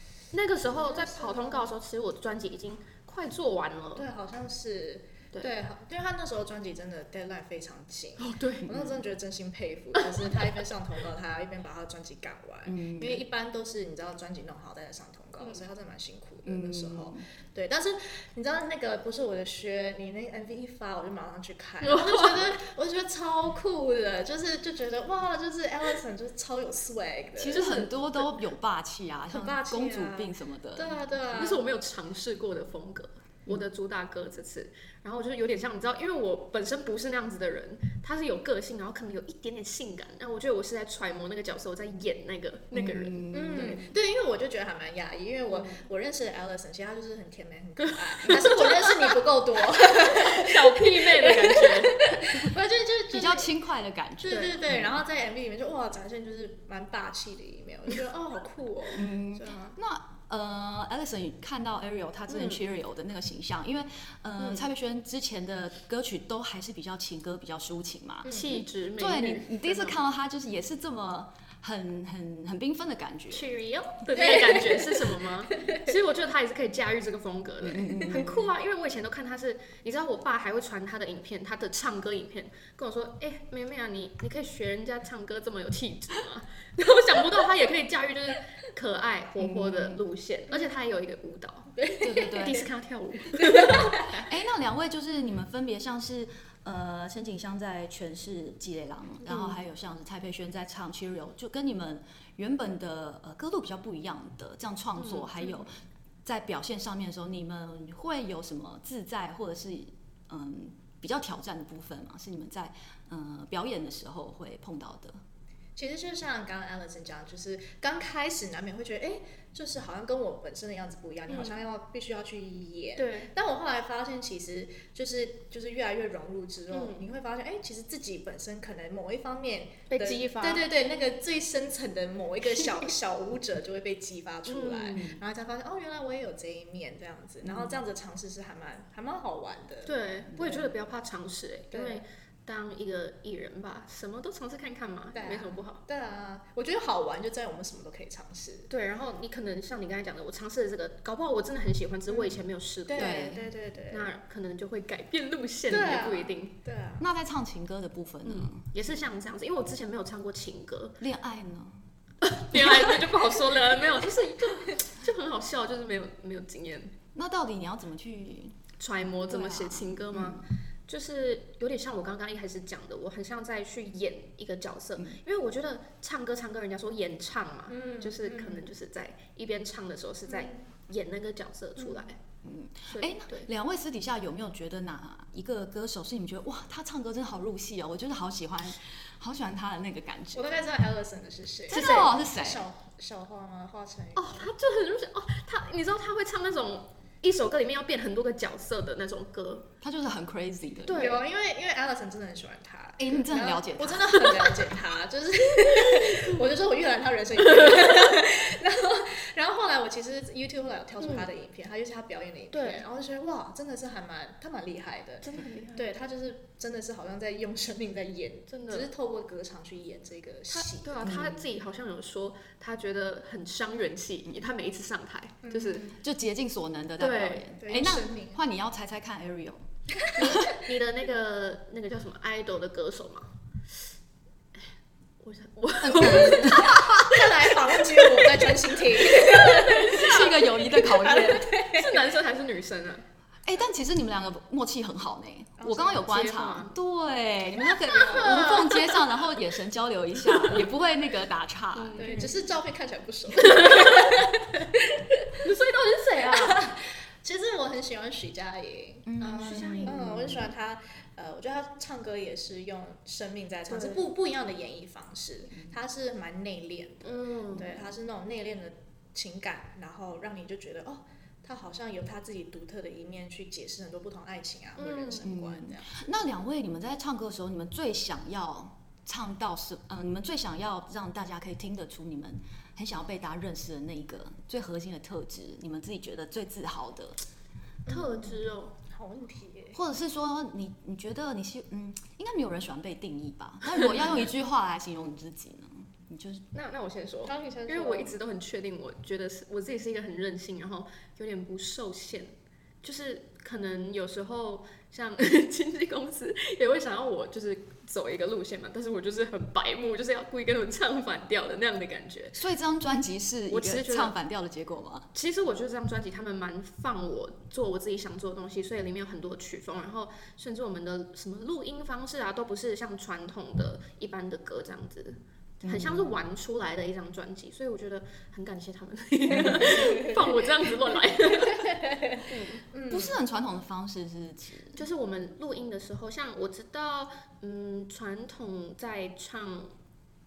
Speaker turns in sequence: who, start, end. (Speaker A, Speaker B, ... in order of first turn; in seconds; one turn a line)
Speaker A: 0.3-4.1
Speaker B: 0.7-1.7
Speaker B: 4.0-27.8
Speaker A: 8.2-8.7
Speaker A: 10.0-10.5
Speaker C: 12.7-13.2
Speaker C: 16.4-17.2
Speaker A: 21.8-22.6
Speaker C: 27.4-31.0
Speaker A: 27.5-28.2
Speaker B: 29.3-31.6
Speaker A: 31.3-43.9
Speaker C: 42.7-43.8
Speaker B: 43.3-53.5
Speaker A: 45.5-45.9
Speaker A: 48.1-49.2
Speaker A: 49.9-52.4
Speaker C: 53.1-55.0
Speaker B: 54.2-59.8
Speaker A: 54.2-54.6
Speaker C: 58.9-73.5
Speaker A: 62.3-62.6
Speaker A: 64.4-64.7
Speaker A: 68.2-70.0
Speaker A: 73.3-94.2
Speaker B: 74.1-75.9
Speaker C: 77.6-78.4
Speaker C: 89.4-90.0
Speaker B: 91.8-92.3
Speaker C: 92.0-92.7
Speaker B: 93.3-94.2
Speaker C: 93.7-105.7
Speaker A: 99.2-99.6
Speaker A: 105.0-105.6
Speaker C: 106.2-115.2
Speaker B: 115.8-140.7
Speaker A: 121.3-121.6
Speaker A: 123.0-123.3
Speaker A: 126.7-127.0
Speaker A: 129.9-130.7
Speaker A: 134.4-135.2
Speaker C: 137.4-137.7
Speaker A: 139.8-145.8
Speaker B: 141.7-142.0
Speaker B: 145.1-148.7
Speaker A: 148.7-153.3
Speaker B: 152.1-154.2
Speaker C: 152.9-153.5
Speaker A: 153.9-156.5
Speaker B: 155.7-157.1
Speaker C: 157.0-159.0
Speaker A: 158.2-161.0
Speaker C: 161.0-161.8
Speaker A: 162.2-166.9
Speaker C: 162.5-163.1
Speaker C: 167.1-168.6
Speaker A: 168.8-182.2
Speaker C: 169.2-170.5
Speaker B: 177.7-178.7
Speaker B: 180.3-180.6
Speaker B: 181.8-182.1
Speaker C: 182.4-190.6
Speaker A: 182.9-183.5
Speaker B: 190.3-194.5
Speaker A: 191.7-192.2
Speaker C: 191.7-192.6
Speaker A: 194.2-199.7
Speaker C: 199.8-201.0
Speaker A: 200.8-201.2
Speaker B: 200.9-221.2
Speaker C: 203.0-204.6
Speaker A: 206.1-206.4
Speaker A: 207.6-207.9
Speaker A: 212.5-212.8
Speaker A: 215.2-215.8
Speaker A: 218.5-218.9
Speaker A: 220.5-225.9
Speaker C: 221.0-221.4
Speaker B: 225.4-226.0
Speaker C: 226.0-229.6
Speaker A: 227.0-227.4
Speaker B: 227.6-228.4
Speaker B: 230.0-230.4
Speaker A: 230.2-233.3
Speaker C: 230.2-230.6
Speaker A: 235.2-237.0
Speaker C: 235.8-237.2
Speaker B: 236.0-242.0
Speaker A: 239.1-240.2
Speaker C: 239.1-241.5
Speaker A: 241.5-243.0
Speaker C: 243.4-252.2
Speaker B: 245.6-246.1
Speaker A: 245.9-246.8
Speaker B: 247.8-248.9
Speaker A: 248.0-248.9
Speaker A: 251.7-252.4
Speaker B: 252.0-255.5
Speaker A: 253.4-254.2
Speaker A: 255.4-256.6
Speaker B: 256.3-276.0
Speaker C: 259.1-260.4
Speaker A: 259.4-260.0
Speaker A: 263.7-264.0
Speaker A: 267.0-267.7
Speaker A: 274.8-275.2
Speaker C: 275.2-287.2
Speaker A: 287.9-288.8
Speaker B: 287.9-289.8
Speaker C: 289.7-296.4
Speaker A: 296.5-312.4
Speaker B: 297.2-298.2
Speaker C: 312.3-315.1
Speaker A: 313.5-314.1
Speaker A: 315.1-332.6
Speaker C: 325.6-326.1
Speaker B: 329.3-333.2
Speaker C: 329.3-329.8
Speaker C: 332.9-334.8
Speaker A: 334.8-339.7